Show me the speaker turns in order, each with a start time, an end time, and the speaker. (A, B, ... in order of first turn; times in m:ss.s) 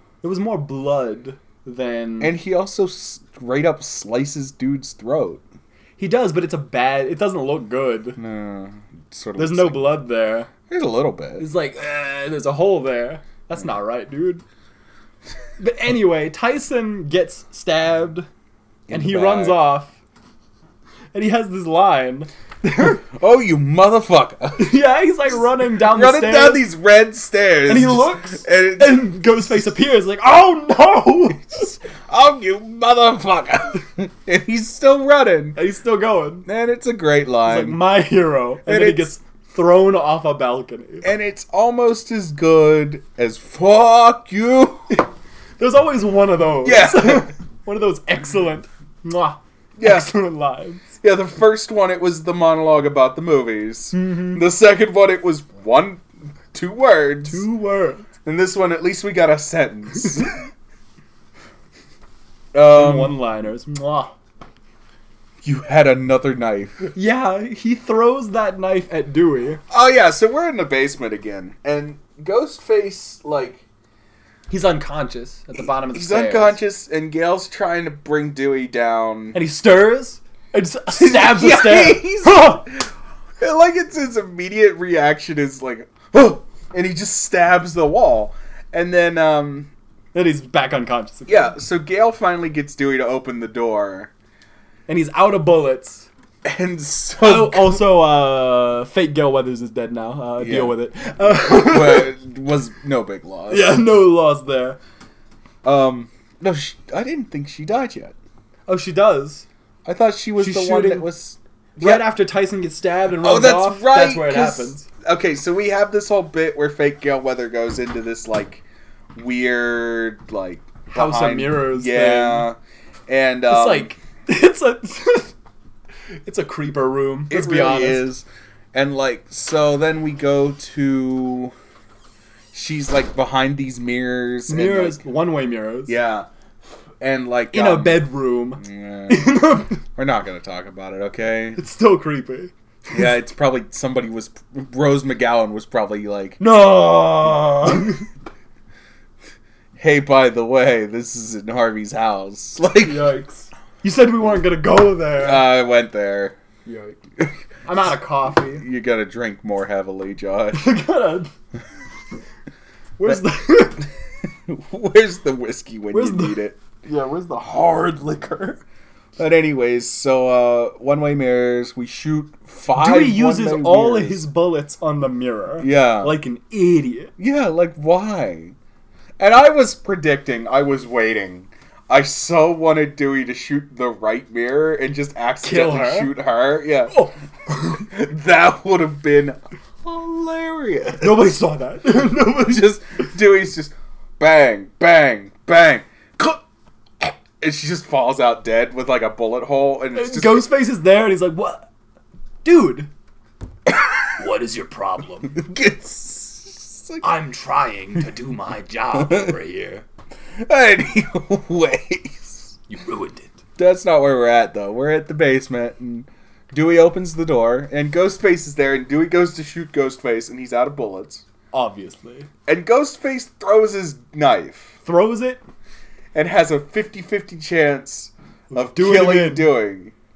0:00.2-0:02.4 A
0:02.2-0:05.4 B
0:06.0-0:08.2 A
0:08.2-0:10.0 B
0:09.4-0:10.5 A
0:10.7-0:11.5 B
0:11.4-0:14.4 A
0:15.6-0:18.3 A
0:18.9-0:19.6 B
0:18.9-0:19.9 A
0:21.1-0:23.0 A
0:23.0-0:24.8 B
0:24.6-0:26.6 A
0:25.7-0:29.6 B
0:27.7-0:31.7 A
0:31.5-0:35.6 B
0:35.5-0:36.5 A
0:36.4-0:37.8 B
0:37.4-0:41.1 A
0:38.6-0:39.1 B
0:41.0-0:44.9 B
0:45.6-0:50.9 A
0:46.6-0:47.3 B
0:49.8-0:50.1 B
0:51.0-0:57.4 B
0:53.9-0:54.4 A
0:57.2-0:58.1 A
0:58.2-1:00.4 B
1:02.5-1:03.2 B
1:02.6-1:04.1 A
1:05.4-1:06.9 B
1:06.9-1:09.6 A
1:09.7-1:13.6 B
1:14.5-1:16.6 A
1:15.6-1:19.4 B
1:19.3-1:22.6 A
1:20.9-1:29.7 B
1:30.1-1:31.5 A
1:31.3-1:34.1 B
1:34.9-1:36.1 A
1:36.4-1:38.0 B
1:37.2-1:42.1 A
1:40.4-1:43.8 B
1:43.5-1:44.8 A
1:45.6-1:48.1 B
1:48.7-1:49.4 A
1:49.8-1:52.1 B
1:50.4-1:51.1 A
1:51.8-1:54.9 A
1:53.2-2:03.9 B
2:00.9-2:02.5 A
2:03.5-2:05.3 A
2:06.2-2:08.1 A
2:07.3-2:11.5 B
2:12.5-2:15.0 B
2:14.5-2:16.0 A
2:15.9-2:16.3 B
2:17.0-2:21.6 B
2:17.5-2:19.8 A
2:21.6-2:22.5 A
2:22.9-2:26.4 B
2:26.4-2:28.0 A
2:29.8-2:33.2 B
2:32.8-2:35.6 A
2:35.2-2:36.4 B
2:36.6-2:37.0 A
2:37.6-2:38.6 A
2:38.6-2:40.7 B
2:40.5-2:41.3 A
2:43.0-2:43.9 A
2:44.5-2:46.6 B
2:45.9-2:48.6 A
2:49.2-2:54.2 B
2:52.7-2:57.1 A
2:55.6-2:56.2 B
2:57.2-2:58.5 B
2:59.2-3:07.1 B
3:05.4-3:06.1 A
3:06.9-3:07.9 A
3:07.8-3:11.3 B
3:11.0-3:12.7 A
3:12.3-3:16.4 B
3:17.0-3:20.5 B
3:19.9-3:21.7 A
3:22.4-3:22.9 A
3:23.7-3:24.0 B
3:24.2-3:25.4 A
3:25.3-3:27.0 B
3:27.0-3:29.8 A
3:29.0-3:29.3 B
3:30.4-3:32.6 B
3:32.7-3:33.4 A
3:33.6-3:41.2 B
3:41.5-3:42.3 A
3:42.5-3:44.8 B
3:44.8-3:45.4 A
3:46.1-3:49.9 B
3:48.5-3:49.5 A